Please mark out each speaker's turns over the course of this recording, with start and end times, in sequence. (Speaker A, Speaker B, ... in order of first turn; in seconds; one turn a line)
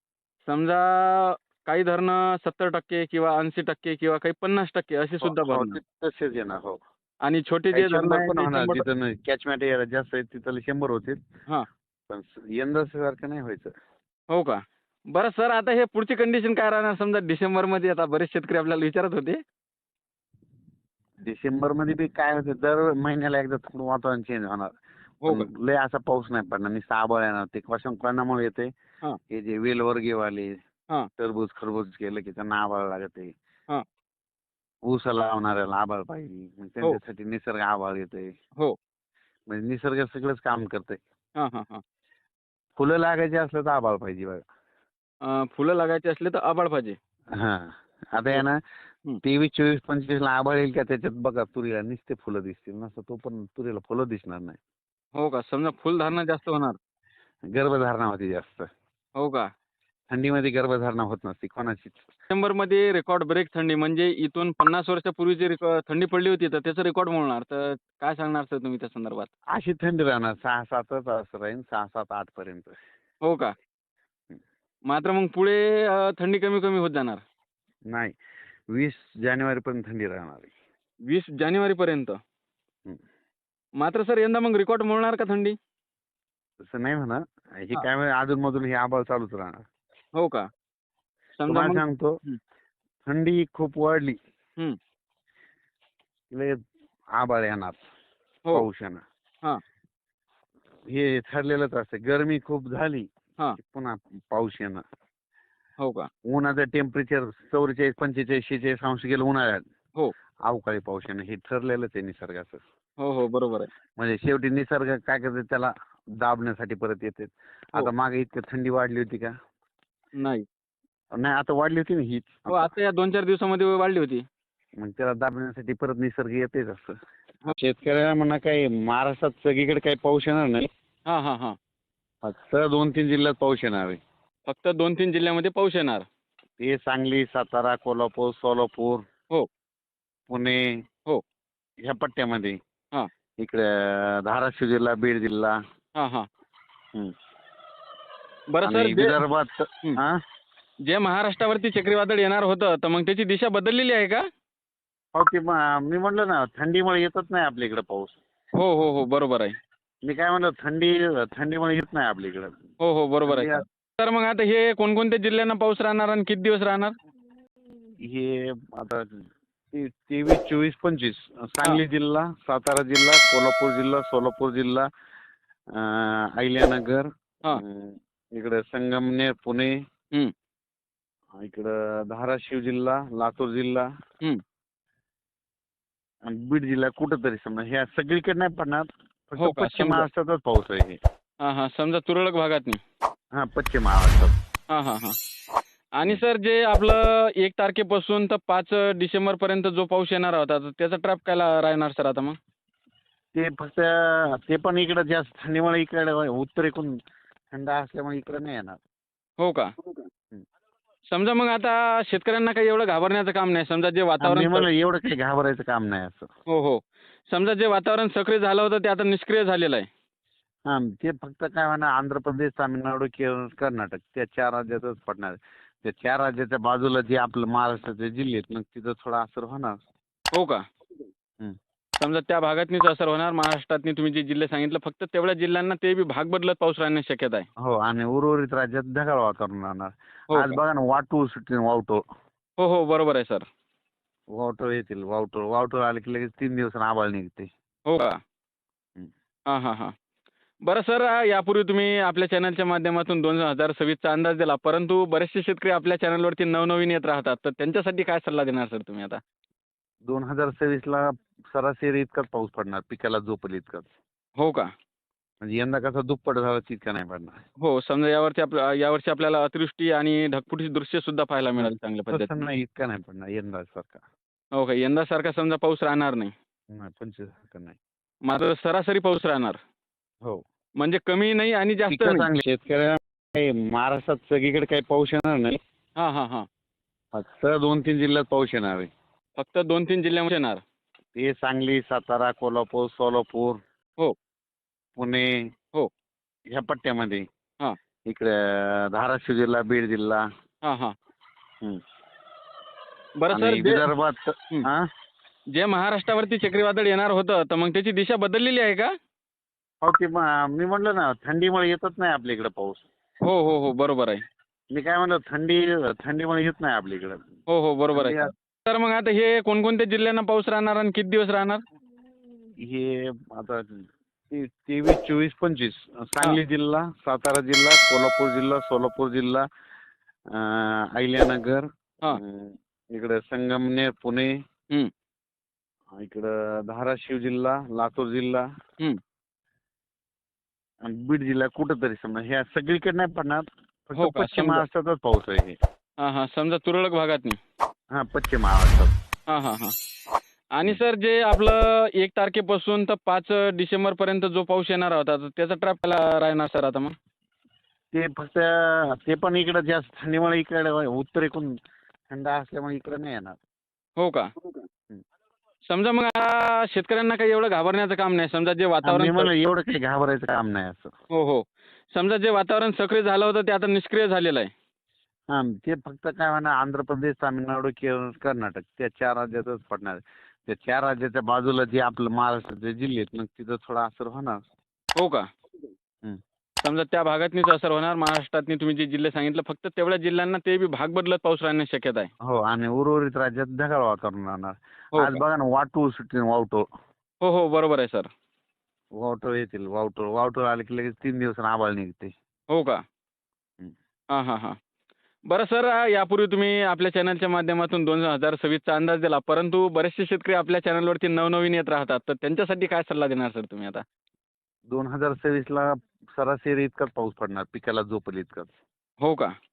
Speaker A: 0.5-5.8
Speaker B: 5.2-6.8
Speaker A: 7.2-8.9
Speaker B: 7.7-11.2
Speaker B: 12.1-13.7
Speaker A: 14.3-19.4
Speaker B: 21.2-24.7
Speaker B: 25.3-28.7
Speaker B: 29.3-30.6
Speaker B: 31.2-33.3
Speaker B: 34.9-38.3
Speaker B: 39.5-41.0
Speaker A: 41.4-41.8
Speaker B: 42.8-44.4
Speaker A: 45.2-47.0
Speaker B: 47.4-48.6
Speaker B: 49.2-54.6
Speaker A: 55.1-56.8
Speaker B: 57.5-58.7
Speaker A: 59.2-59.5
Speaker B: 60.1-62.1
Speaker A: 62.3-69.3
Speaker B: 69.5-72.8
Speaker A: 73.2-73.5
Speaker A: 74.9-77.2
Speaker B: 77.9-78.2
Speaker B: 78.7-80.5
Speaker A: 81.1-82.2
Speaker A: 83.8-85.5
Speaker B: 86.6-89.7
Speaker A: 90.2-90.5
Speaker A: 91.4-92.4
Speaker B: 91.5-92.2
Speaker B: 93.1-94.2
Speaker B: 96.3-96.6
Speaker B: 97.2-97.8
Speaker B: 98.5-99.0
Speaker B: 100.9-104.8
Speaker A: 105.8-106.1
Speaker B: 106.3-109.7
Speaker B: 110.5-112.6
Speaker A: 113.0-113.7
Speaker B: 114.0-119.3
Speaker A: 120.2-120.5
Speaker B: 121.1-122.7
Speaker A: 122.5-124.2
Speaker B: 124.8-127.0
Speaker B: 127.5-130.7
Speaker A: 131.1-131.6
Speaker B: 132.2-134.0
Speaker A: 134.5-136.1
Speaker B: 136.6-139.0
Speaker B: 140.3-140.7
Speaker B: 141.8-142.6
Speaker B: 143.4-145.6
Speaker A: 145.9-146.3
Speaker A: 148.5-149.2
Speaker B: 148.7-150.2
Speaker A: 150.9-154.2
Speaker B: 155.2-158.2
Speaker A: 158.6-159.6
Speaker B: 160.1-162.6
Speaker A: 162.8-166.9
Speaker B: 163.3-163.6
Speaker B: 168.1-174.9
Speaker B: 175.7-179.7
Speaker B: 181.4-183.9
Speaker B: 186.3-191.0
Speaker A: 189.4-190.1
Speaker A: 191.4-192.8
Speaker B: 193.3-194.3
Speaker A: 194.7-195.2
Speaker A: 196.0-202.4
Speaker B: 203.3-206.9
Speaker B: 207.5-208.8
Speaker A: 209.4-209.7
Speaker A: 211.1-214.7
Speaker B: 214.2-216.3
Speaker A: 216.5-219.9
Speaker B: 220.7-229.8
Speaker A: 230.3-230.6
Speaker A: 232.0-237.5
Speaker B: 237.6-242.0
Speaker A: 240.3-240.6
Speaker A: 242.6-243.5
Speaker B: 244.4-247.5
Speaker A: 247.9-248.2
Speaker A: 249.5-249.9
Speaker A: 250.7-259.2
Speaker B: 260.1-263.9
Speaker A: 264.4-264.7
Speaker B: 265.4-267.4
Speaker A: 267.6-272.4
Speaker B: 271.6-274.0
Speaker A: 274.6-276.3
Speaker B: 276.7-277.8
Speaker A: 278.3-279.6
Speaker A: 280.8-282.3
Speaker B: 281.9-285.6
Speaker A: 286.0-286.5
Speaker B: 287.1-288.9
Speaker A: 289.4-290.6
Speaker B: 291.2-293.6
Speaker B: 295.0-295.4
Speaker B: 296.5-297.2
Speaker B: 298.1-300.2
Speaker A: 300.6-300.9
Speaker A: 303.2-303.9
Speaker B: 303.3-304.9
Speaker A: 305.5-308.9
Speaker B: 309.8-312.9
Speaker A: 313.2-314.2
Speaker B: 314.7-317.3
Speaker A: 317.5-321.6
Speaker B: 317.9-318.3
Speaker B: 322.6-329.4
Speaker B: 330.3-334.3
Speaker B: 336.0-338.5
Speaker B: 340.9-345.6
Speaker A: 344.0-344.6
Speaker A: 346.0-347.4
Speaker B: 347.9-348.9
Speaker A: 349.3-349.8
Speaker A: 350.6-356.9
Speaker B: 357.9-361.5
Speaker B: 362.1-363.4
Speaker A: 364.0-364.3
Speaker A: 365.7-369.3
Speaker B: 368.9-370.9
Speaker A: 371.1-374.5
Speaker B: 375.3-384.4
Speaker A: 385.0-385.2
Speaker A: 386.6-392.1
Speaker B: 392.2-396.6
Speaker A: 394.9-395.2
Speaker A: 397.2-398.1
Speaker B: 399.0-402.1
Speaker A: 402.5-402.8
Speaker A: 404.1-404.6
Speaker A: 405.3-413.8
Speaker B: 414.7-418.5
Speaker A: 419.0-419.3